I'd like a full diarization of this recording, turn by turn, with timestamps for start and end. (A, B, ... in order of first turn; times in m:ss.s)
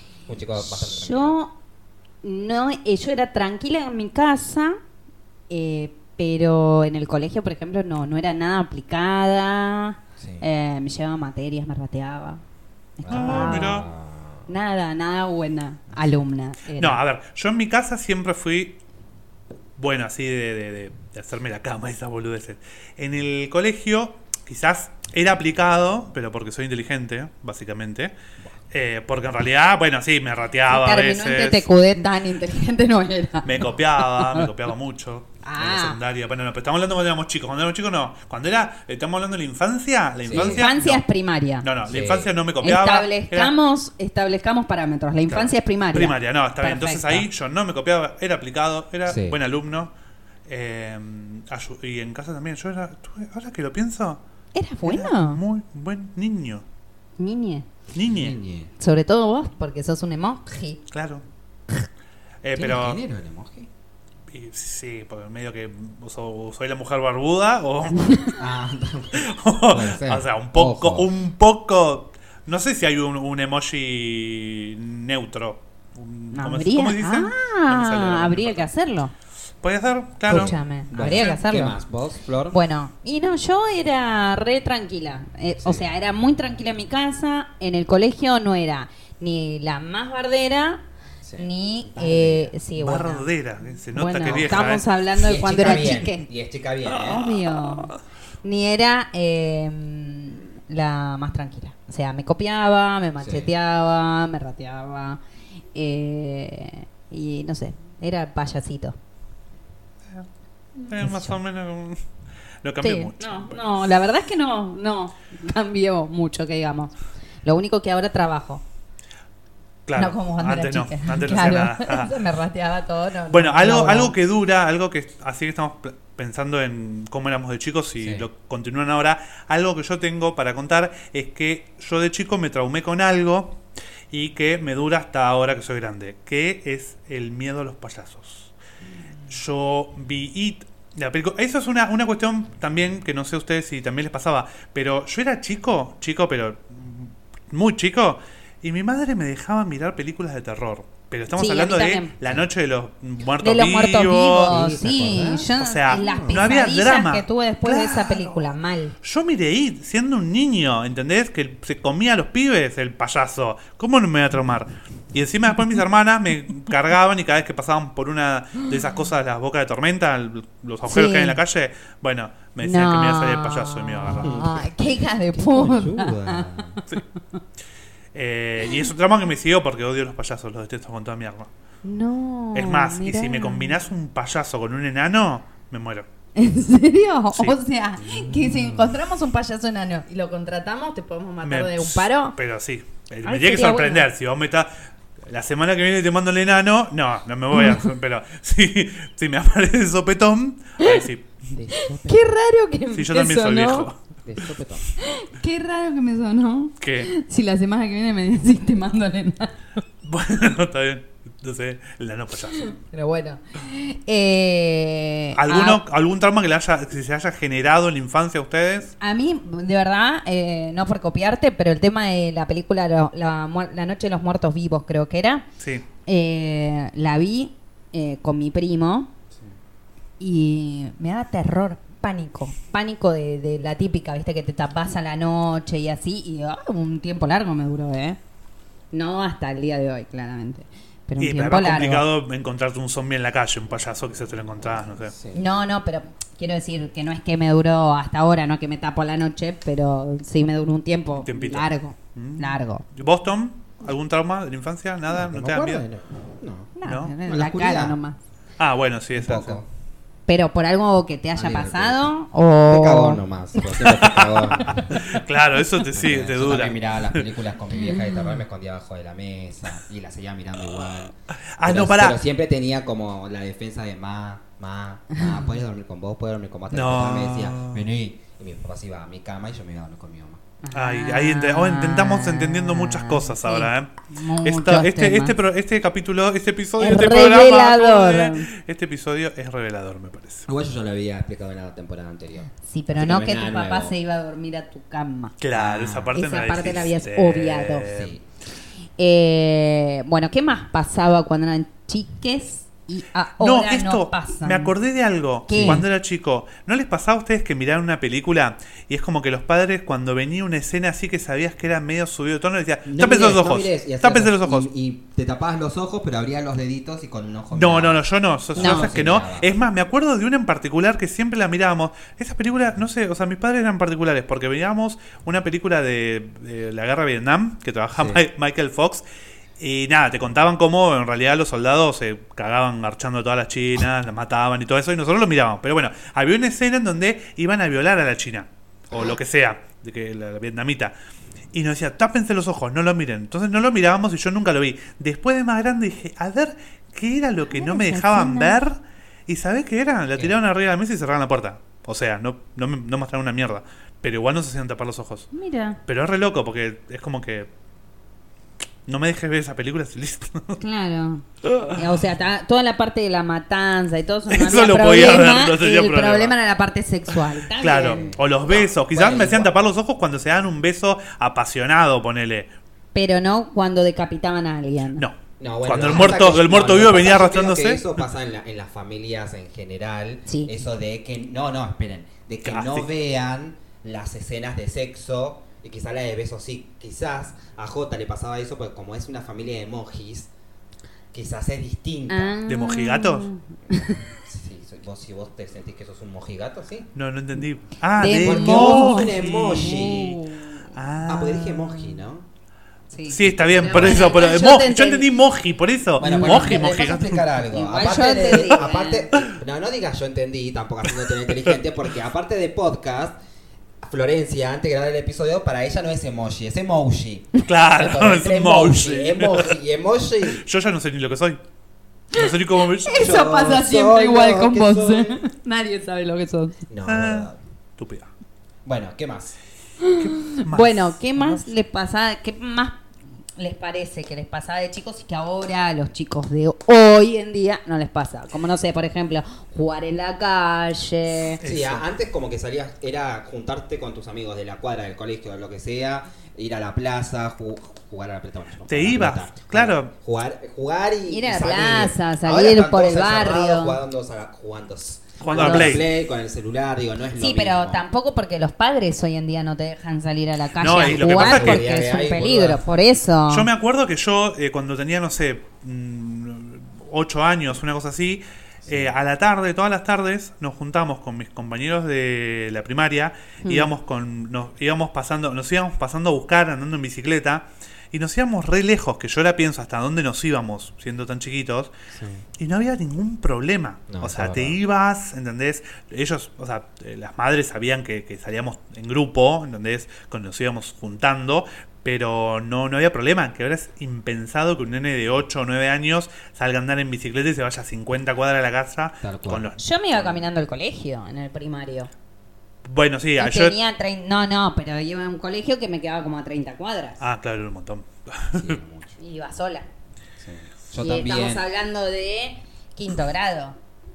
0:00.3-0:01.4 A
0:00.6-0:01.5 B
0:02.2-0:04.8 B
0:05.5-0:12.4 B
0:10.2-0:10.4 A
0:13.0-0:13.8 B
0:13.0-0:14.4 A
0:13.1-0:13.9 C
0:14.5-0:17.0 B
0:16.8-0:18.8 C
0:19.8-0:28.1 C
0:28.7-0:31.7 C
0:30.7-0:34.5 B
0:33.4-0:41.0 C
0:35.4-0:36.0 B
0:40.2-0:40.6 A
0:40.3-0:41.6 B
0:41.6-0:43.5 C
0:41.9-0:42.3 A
0:42.6-0:47.3 B
0:45.3-0:49.9 C
0:49.0-0:49.4 A
0:50.5-0:54.2 C
0:54.5-0:55.4 B
0:54.8-0:56.6 C
0:57.2-0:57.7 B
0:57.9-0:58.4 C
0:58.0-0:58.7 A
0:58.8-1:00.8 B
1:00.9-1:01.2 C
1:02.4-1:03.0 C
1:02.6-1:03.7 A
1:04.3-1:08.0 C
1:07.9-1:08.4 B
1:08.4-1:11.1 A
1:09.1-1:18.7 C
1:16.3-1:19.1 B
1:19.6-1:21.3 C
1:20.3-1:22.6 A
1:20.3-1:21.8 B
1:22.5-1:30.8 B
1:25.6-1:25.9 A
1:31.2-1:32.5 A
1:31.4-1:33.2 B
1:32.8-1:34.9 C
1:33.9-1:36.2 B
1:35.2-1:37.4 A
1:36.9-1:37.9 B
1:38.4-1:45.2 B
1:43.2-1:43.5 A
1:45.7-1:49.0 B
1:50.8-1:51.4 B
1:50.9-1:52.0 C
1:52.6-1:53.6 C
1:52.8-1:56.9 B
1:57.4-1:58.6 B
1:59.8-2:02.2 C
2:00.0-2:04.1 B
2:03.3-2:18.5 C
2:08.0-2:08.3 A
2:19.3-2:34.6 C
2:31.3-2:32.1 B
2:33.4-2:38.9 B
2:34.5-2:36.5 A
2:35.4-2:54.5 C
2:50.8-2:51.4 B
2:52.6-2:57.4 B
2:54.2-2:56.8 A
2:58.1-3:01.5 C
3:01.8-3:03.7 B
3:02.5-3:06.0 C
3:06.4-3:12.4 B
3:08.0-3:08.9 A
3:11.4-3:14.7 C
3:13.2-3:14.1 B
3:15.3-3:21.4 C
3:17.5-3:17.8 B
3:21.5-3:22.2 A
3:21.7-3:23.9 B
3:22.9-3:24.0 C
3:24.2-3:24.8 A
3:25.0-3:29.6 B
3:26.8-3:27.1 C
3:30.0-3:32.8 C
3:32.5-3:35.8 B
3:35.3-3:38.9 C
3:39.0-3:45.4 B
3:46.0-3:49.1 B
3:50.2-3:58.2 B
3:58.9-4:02.0 B
4:01.2-4:05.1 C
4:05.1-4:05.4 A
4:05.3-4:12.8 B
4:11.2-4:15.8 C
4:15.1-4:16.7 A
4:16.8-4:18.2 B
4:16.8-4:17.1 C
4:17.2-4:18.0 A
4:18.6-4:19.6 C
4:19.1-4:19.7 A
4:20.3-4:23.2 B
4:21.3-4:22.1 A
4:22.7-4:25.0 A
4:23.7-4:27.2 C
4:25.8-4:40.4 A
4:27.8-4:28.3 B
4:31.6-4:32.2 C
4:35.1-4:35.4 B
4:36.7-4:37.8 C
4:40.6-4:45.3 B
4:40.7-4:43.9 C
4:44.4-4:50.4 C
4:46.8-4:48.5 B
4:50.5-4:53.9 A
4:52.6-4:55.3 B
4:55.4-4:58.2 C
4:55.5-4:56.2 A
4:56.1-4:57.9 B
4:57.9-4:58.2 A
4:59.0-5:04.7 B
5:03.4-5:14.7 C
5:05.5-5:05.8 B
5:05.5-5:05.8 A
5:12.9-5:18.0 A
5:17.5-5:29.0 C
5:18.5-5:19.5 A
5:18.6-5:18.9 B
5:27.9-5:28.2 A
5:29.6-5:40.9 C
5:41.5-5:55.3 C
5:47.5-5:48.6 B
5:55.3-5:55.8 B
5:55.8-5:57.5 C
5:58.9-6:00.6 C
6:00.6-6:08.0 B
6:01.4-6:01.8 C
6:04.3-6:06.3 C
6:07.5-6:12.5 C
6:07.8-6:09.5 A
6:12.9-6:15.0 B
6:15.0-6:17.9 C
6:15.4-6:30.3 A
6:20.2-6:20.5 B
6:22.4-6:22.9 C
6:31.1-6:32.4 A
6:32.1-6:34.0 B
6:32.5-6:33.3 C
6:34.2-6:36.9 A
6:36.9-6:40.2 C
6:38.0-6:40.7 B
6:38.2-6:40.2 A
6:40.7-6:42.0 C
6:41.0-6:42.3 A
6:42.9-6:45.1 B
6:43.1-6:47.3 C
6:43.3-6:44.1 A
6:46.0-6:53.1 A
6:46.0-6:46.7 B
6:47.5-6:49.1 B
6:50.9-6:51.3 C
6:53.8-7:00.4 A
6:57.4-6:59.6 C
7:00.3-7:01.4 C
7:02.1-7:03.1 C
7:02.1-7:06.6 B
7:03.0-7:05.2 A
7:06.7-7:07.4 A
7:06.8-7:08.1 C
7:08.6-7:09.3 A
7:09.8-7:12.8 B
7:10.0-7:11.4 C
7:13.4-7:21.4 B
7:21.4-7:21.8 C
7:21.4-7:37.8 A
7:28.7-7:29.9 C
7:31.1-7:33.8 B
7:35.2-7:35.9 C
7:35.3-7:35.8 B
7:37.2-7:43.5 B
7:40.6-7:41.6 C
7:40.7-7:42.6 A
7:43.3-8:01.7 C
7:48.6-7:48.9 A
7:53.4-7:53.7 B
8:01.9-8:02.2 A
8:02.4-8:20.2 C
8:03.9-8:04.6 A
8:19.0-8:19.5 A
8:19.6-8:21.9 B
8:22.6-8:23.6 C
8:23.2-8:27.0 B
8:27.0-8:28.6 C
8:28.3-8:29.0 A
8:29.0-8:29.7 B
8:30.2-8:31.4 A
8:30.7-8:33.6 B